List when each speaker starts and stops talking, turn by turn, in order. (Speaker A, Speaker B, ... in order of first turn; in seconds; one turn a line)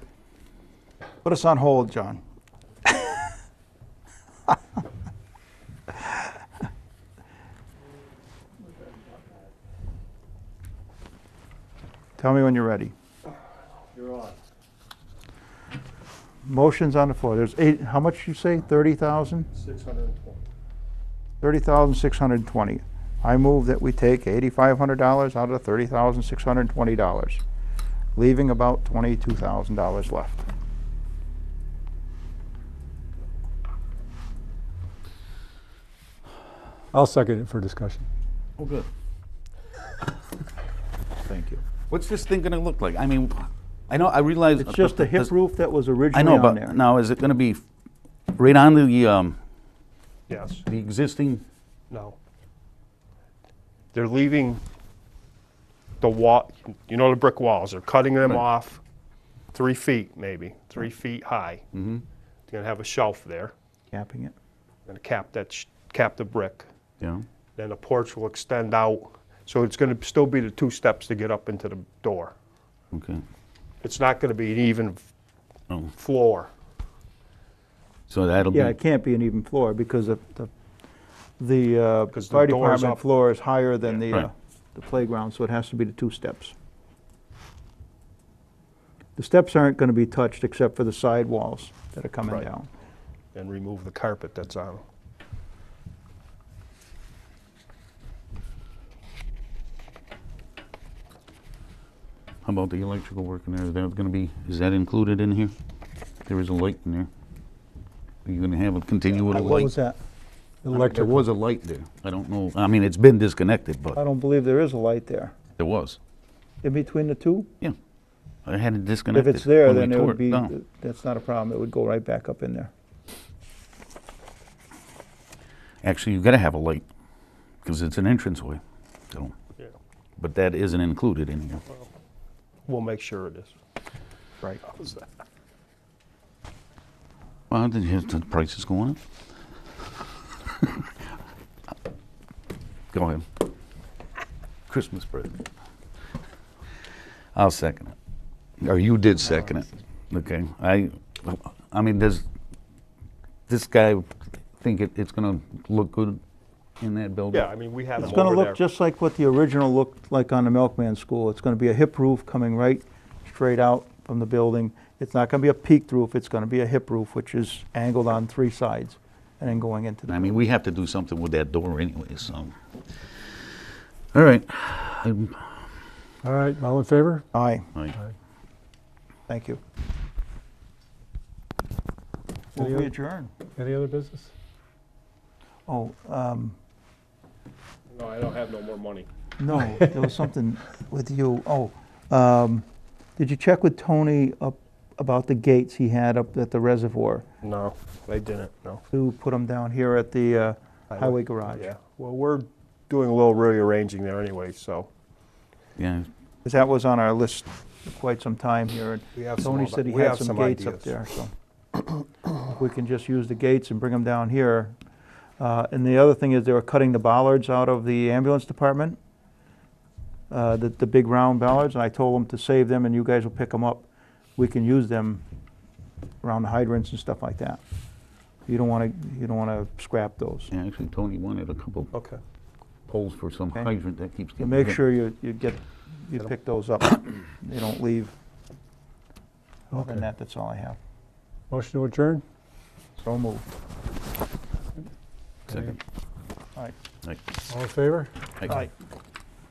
Speaker A: 1.2-2.2
Speaker A: 2.9-3.3
Speaker A: 12.2-12.9
Speaker A: 16.4-19.5
Speaker B: 19.5-20.4
Speaker A: 21.4-27.4
Speaker A: 28.2-30.4
Speaker C: 36.9-38.1
Speaker D: 38.6-38.9
Speaker A: 41.2-41.6
Speaker D: 41.9-45.3
Speaker A: 44.6-46.8
Speaker D: 46.1-47.6
Speaker D: 48.3-49.4
Speaker B: 50.3-50.6
Speaker D: 50.7-51.4
Speaker B: 51.9-52.2
Speaker B: 53.9-54.6
Speaker B: 56.0-58.8
Speaker B: 59.5-61.6
Speaker D: 61.7-62.0
Speaker B: 62.5-63.5
Speaker A: 63.9-64.3
Speaker B: 64.9-66.7
Speaker D: 67.0-67.2
Speaker B: 67.6-72.3
Speaker D: 72.9-73.2
Speaker B: 73.8-75.1
Speaker B: 76.0-76.5
Speaker D: 78.1-78.8
Speaker A: 78.5-80.5
Speaker A: 81.4-86.5
Speaker B: 82.1-83.0
Speaker A: 89.2-92.7
Speaker B: 93.3-94.8
Speaker D: 102.4-105.5
Speaker D: 106.3-107.1
Speaker D: 108.2-109.7
Speaker A: 109.3-110.0
Speaker C: 110.6-111.2
Speaker D: 110.7-114.0
Speaker A: 114.0-115.3
Speaker D: 115.6-116.0
Speaker A: 116.6-117.5
Speaker D: 118.5-120.5
Speaker A: 119.1-122.7
Speaker D: 125.8-126.8
Speaker D: 127.6-129.3
Speaker D: 130.2-131.6
Speaker B: 132.7-133.6
Speaker B: 134.6-135.1
Speaker D: 137.5-139.0
Speaker D: 142.9-143.3
Speaker D: 144.7-145.4
Speaker D: 147.3-147.9
Speaker D: 148.6-152.2
Speaker D: 153.5-156.2
Speaker D: 156.8-157.5
Speaker B: 157.3-158.6
Speaker A: 158.0-170.4
Speaker D: 170.1-172.6
Speaker D: 174.1-175.5
Speaker C: 176.2-177.3
Speaker A: 177.3-177.7
Speaker A: 179.3-179.6
Speaker A: 182.5-183.3
Speaker C: 182.6-184.3
Speaker A: 185.7-186.6
Speaker B: 187.9-189.1
Speaker A: 189.4-192.7
Speaker A: 193.2-197.2
Speaker B: 197.4-198.8
Speaker A: 198.9-201.7
Speaker B: 200.9-204.9
Speaker D: 205.8-206.1
Speaker A: 206.4-211.3
Speaker B: 209.2-210.9
Speaker A: 212.5-214.8
Speaker A: 215.4-219.0
Speaker A: 220.3-223.9
Speaker A: 224.4-225.2
Speaker A: 226.2-227.6
Speaker A: 228.5-230.5
Speaker D: 230.5-231.9
Speaker B: 231.9-232.2
Speaker D: 232.9-234.8
Speaker A: 234.4-238.1
Speaker A: 239.7-240.8
Speaker C: 239.7-240.1
Speaker C: 241.5-242.2
Speaker A: 243.0-243.4
Speaker C: 245.5-245.8
Speaker D: 245.5-245.8
Speaker C: 247.5-248.1